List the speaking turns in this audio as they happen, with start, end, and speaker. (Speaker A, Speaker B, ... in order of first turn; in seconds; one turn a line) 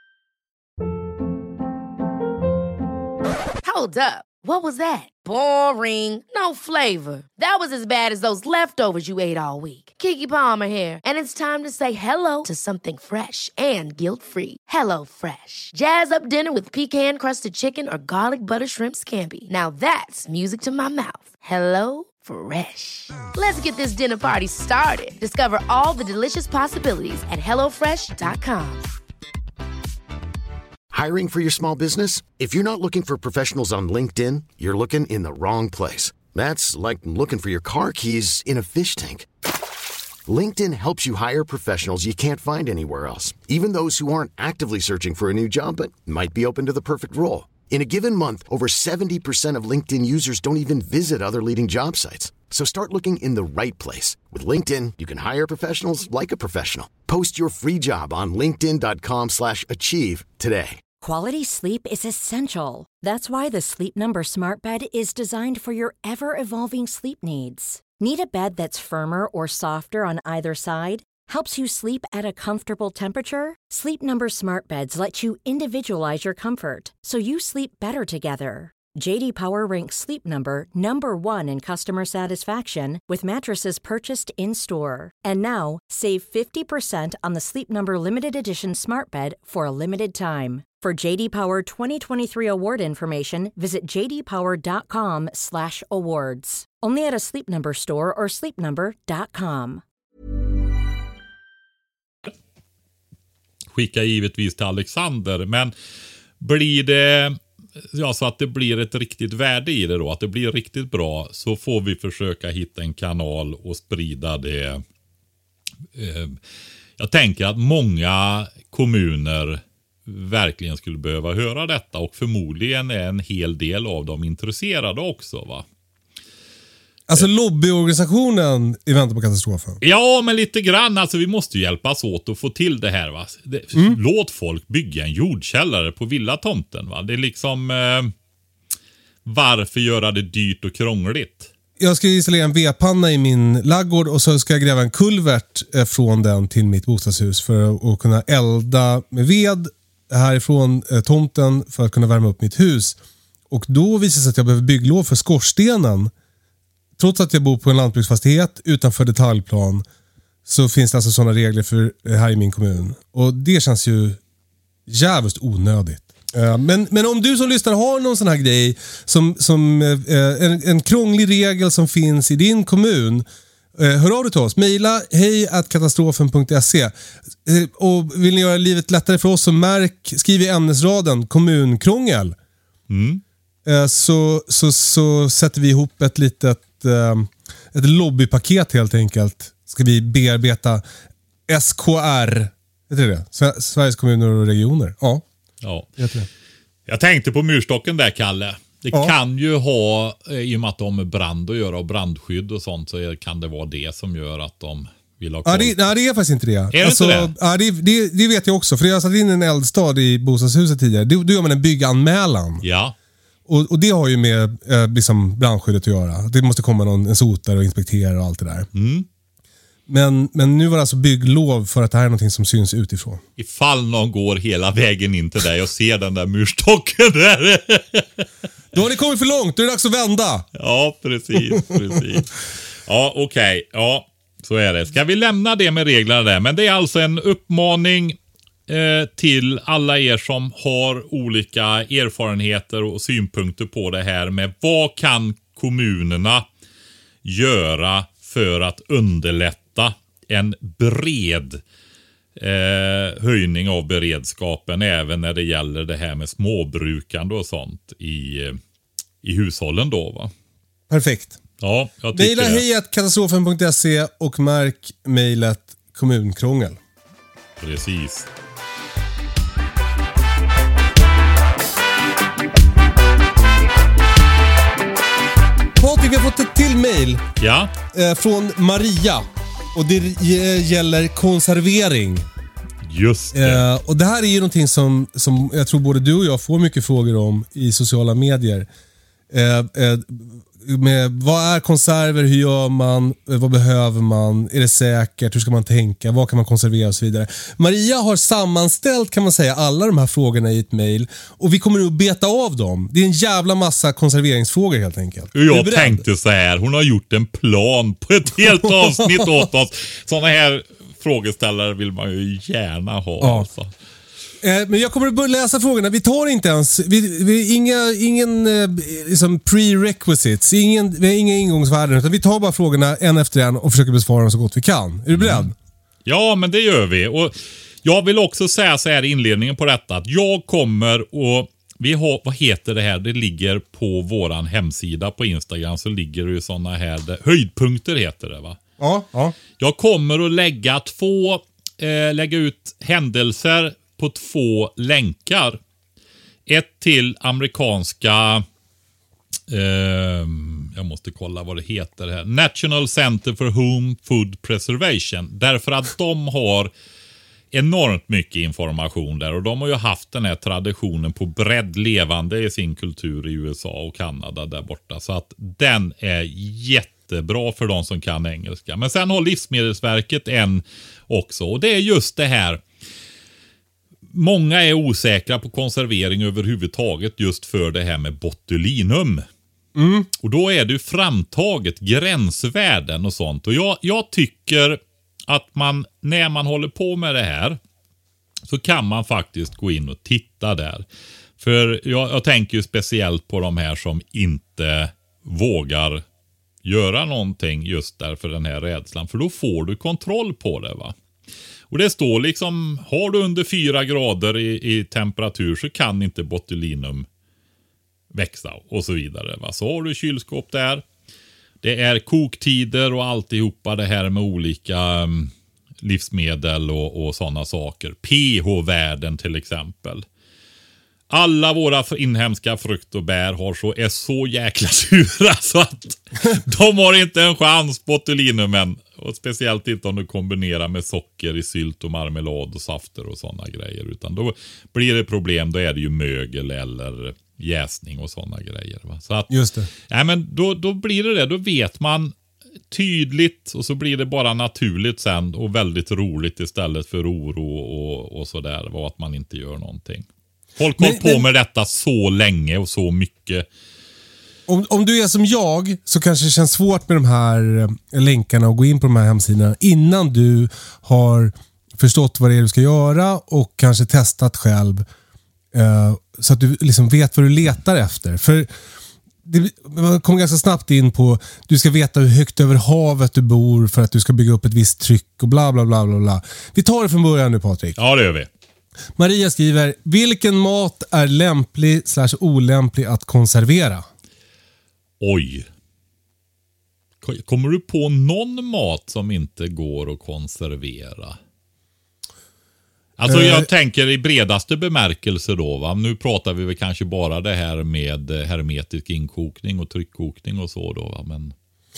Speaker A: 3.6-28.9
Speaker B: 30.9-39.3
Speaker B: 40.3-60.8
Speaker C: 61.0-99.8
Speaker D: 103.7-105.7
Speaker D: 106.4-107.4
Speaker D: 107.9-114.8
Speaker D: 115.9-116.4
Speaker D: 117.0-125.7
Speaker E: 127.1-129.8
Speaker D: 129.8-138.1
Speaker D: 139.2-141.5
Speaker E: 141.8-153.0
Speaker E: 153.5-156.1
Speaker E: 157.0-159.8
Speaker E: 160.4-164.2
Speaker E: 164.9-182.4
Speaker D: 182.9-183.2
Speaker E: 183.6-190.8
Speaker E: 191.5-195.2
Speaker D: 195.6-195.9
Speaker E: 196.0-196.3
Speaker D: 196.9-205.9
Speaker E: 205.4-212.6
Speaker D: 206.7-207.3
Speaker D: 212.6-212.9
Speaker E: 213.5-218.7
Speaker D: 218.7-219.1
Speaker E: 219.9-223.2
Speaker D: 223.4-228.2
Speaker E: 228.7-230.5
Speaker D: 230.6-232.3
Speaker E: 231.5-232.0
Speaker D: 232.9-238.2
Speaker D: 238.7-246.4
Speaker D: 247.2-251.6
Speaker D: 252.4-258.6
Speaker D: 259.2-260.3
Speaker E: 260.9-261.4
Speaker D: 261.6-262.6
Speaker E: 262.1-266.8
Speaker D: 267.6-268.3
Speaker E: 275.8-277.2
Speaker D: 277.4-277.7
Speaker E: 277.9-282.2
Speaker D: 282.9-283.7
Speaker E: 283.3-288.7
Speaker E: 289.3-306.0
Speaker D: 305.3-313.7
Speaker E: 308.4-309.5
Speaker E: 313.2-313.5
Speaker E: 314.4-325.5
Speaker D: 325.1-325.5
Speaker D: 326.1-338.6
Speaker E: 338.8-339.3
Speaker D: 339.6-345.6
Speaker D: 346.5-348.4
Speaker D: 349.5-356.7
Speaker D: 357.5-372.6
Speaker D: 374.1-379.2
Speaker E: 379.8-380.1
Speaker D: 380.2-387.6
Speaker D: 388.5-390.8
Speaker D: 391.4-396.0
Speaker D: 396.6-400.9
Speaker D: 401.7-407.1
Speaker D: 408.1-410.8
Speaker D: 411.6-420.0
Speaker D: 421.1-439.3
Speaker E: 439.3-439.7
Speaker D: 439.9-442.1
Speaker D: 442.7-453.4
Speaker E: 450.8-451.2
Speaker E: 454.5-464.9
Speaker E: 465.5-468.5
Speaker E: 469.2-477.8
Speaker D: 477.8-478.3
Speaker E: 478.9-483.9
Speaker D: 485.0-485.5
Speaker D: 487.0-491.2
Speaker D: 493.0-501.3
Speaker E: 493.1-493.5